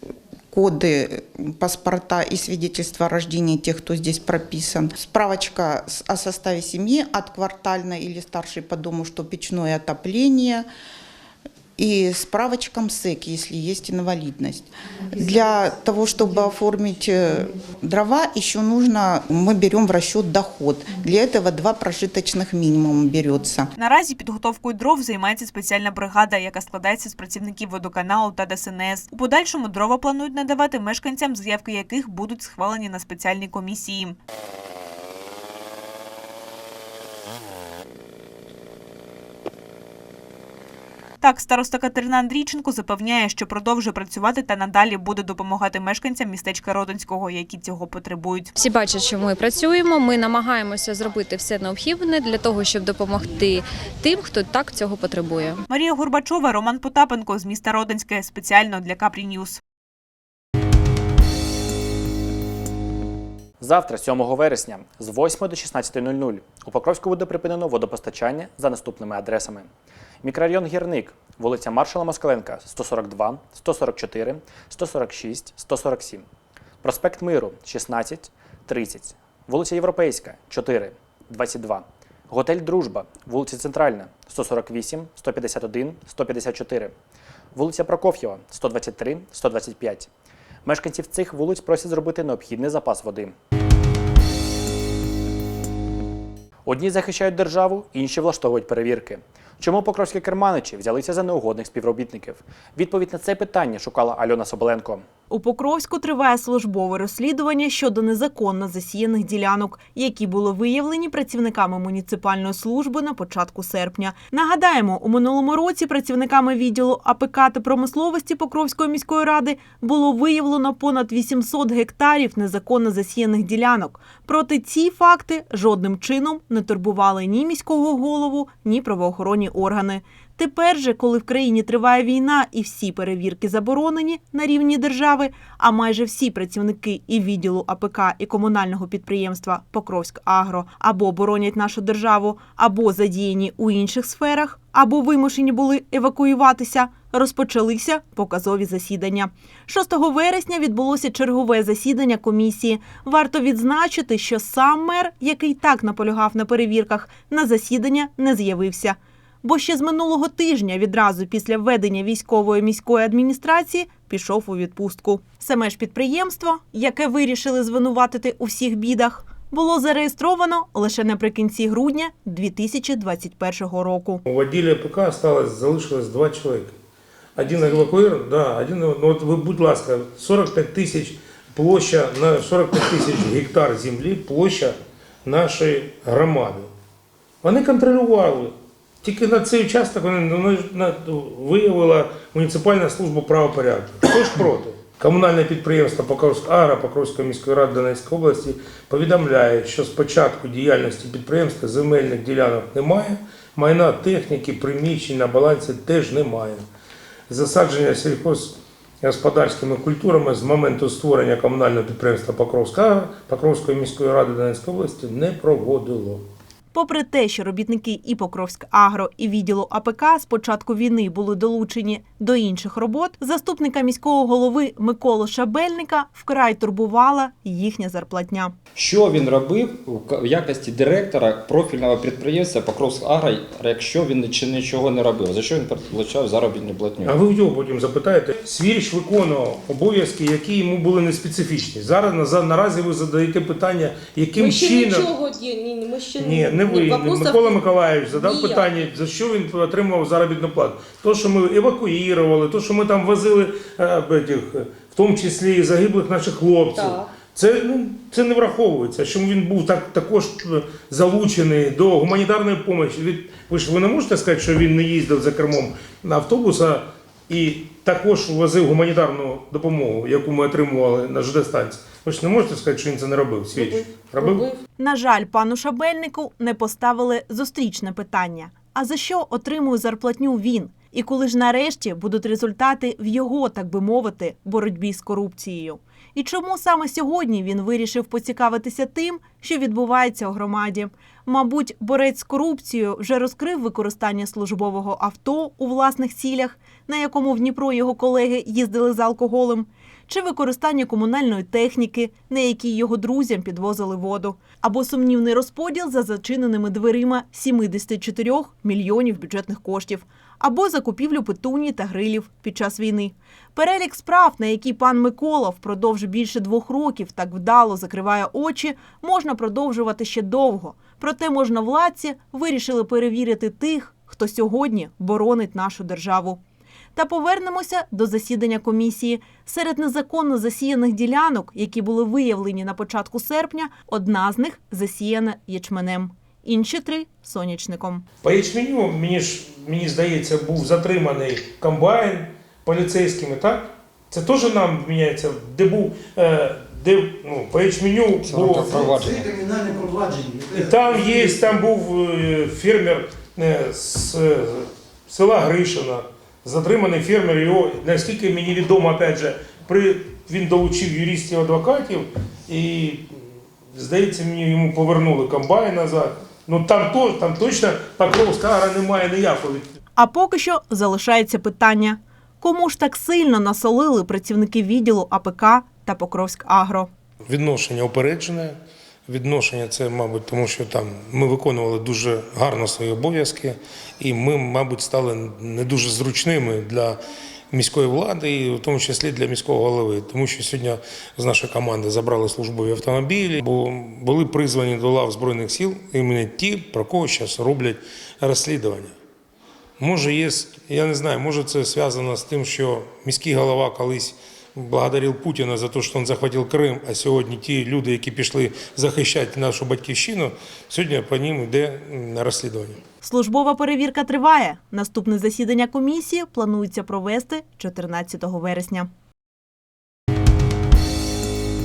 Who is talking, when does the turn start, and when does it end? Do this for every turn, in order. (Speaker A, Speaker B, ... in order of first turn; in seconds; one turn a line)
Speaker A: 0.5-10.7
Speaker A: 11.8-23.7
Speaker B: 23.8-34.1
Speaker B: 41.2-48.5
Speaker C: 48.6-55.6
Speaker B: 55.7-59.6
Speaker D: 63.6-69.7
Speaker D: 70.2-76.2
Speaker D: 76.8-86.9
Speaker D: 87.5-90.1
Speaker D: 90.6-93.3
Speaker D: 96.7-105.0
Speaker E: 105.3-174.2
Speaker F: 174.2-176.7
Speaker F: 177.3-186.7
Speaker F: 187.4-206.6
Speaker F: 207.3-216.2
Speaker E: 216.7-228.5
Speaker G: 228.7-237.2
Speaker F: 237.0-245.1
Speaker H: 244.3-248.7
Speaker F: 246.2-274.5
Speaker H: 256.7-257.1
Speaker H: 273.5-274.6
Speaker E: 274.8-326.4
Speaker E: 326.9-338.0
Speaker F: 338.2-349.0
Speaker G: 348.2-349.4
Speaker F: 350.5-369.7
Speaker E: 369.9-376.9
Speaker F: 377.3-387.0
Speaker F: 387.5-398.9
Speaker F: 399.8-412.8
Speaker E: 413.0-418.9